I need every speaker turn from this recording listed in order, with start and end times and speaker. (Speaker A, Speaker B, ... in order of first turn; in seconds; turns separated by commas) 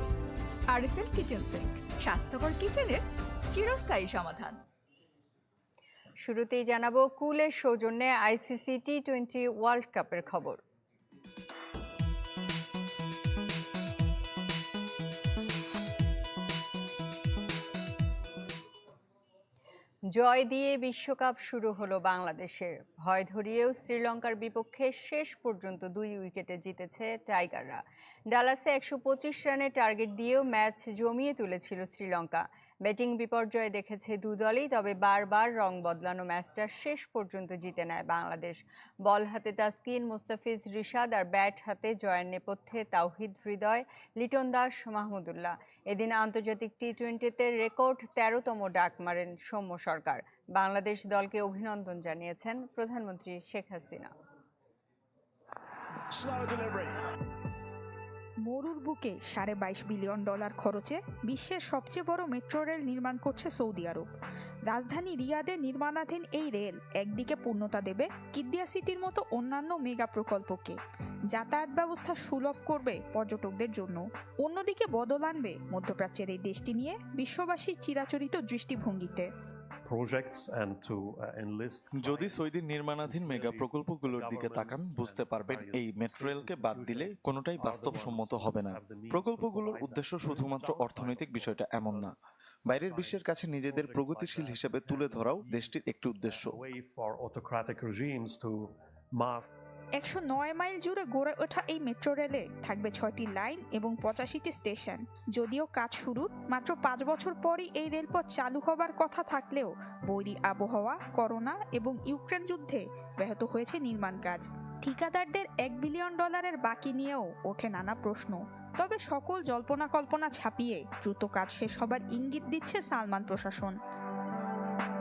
Speaker A: 0.7-4.6, Speaker B: 6.2-10.6, Speaker B: 20.1-54.1, Speaker C: 58.4-64.1, Speaker C: 64.7-70.8, Speaker C: 71.3-79.3, Speaker D: 79.8-82.5, Speaker E: 82.0-92.1, Speaker D: 83.0-92.1, Speaker E: 92.7-96.5, Speaker D: 92.8-99.5, Speaker C: 100.0-123.8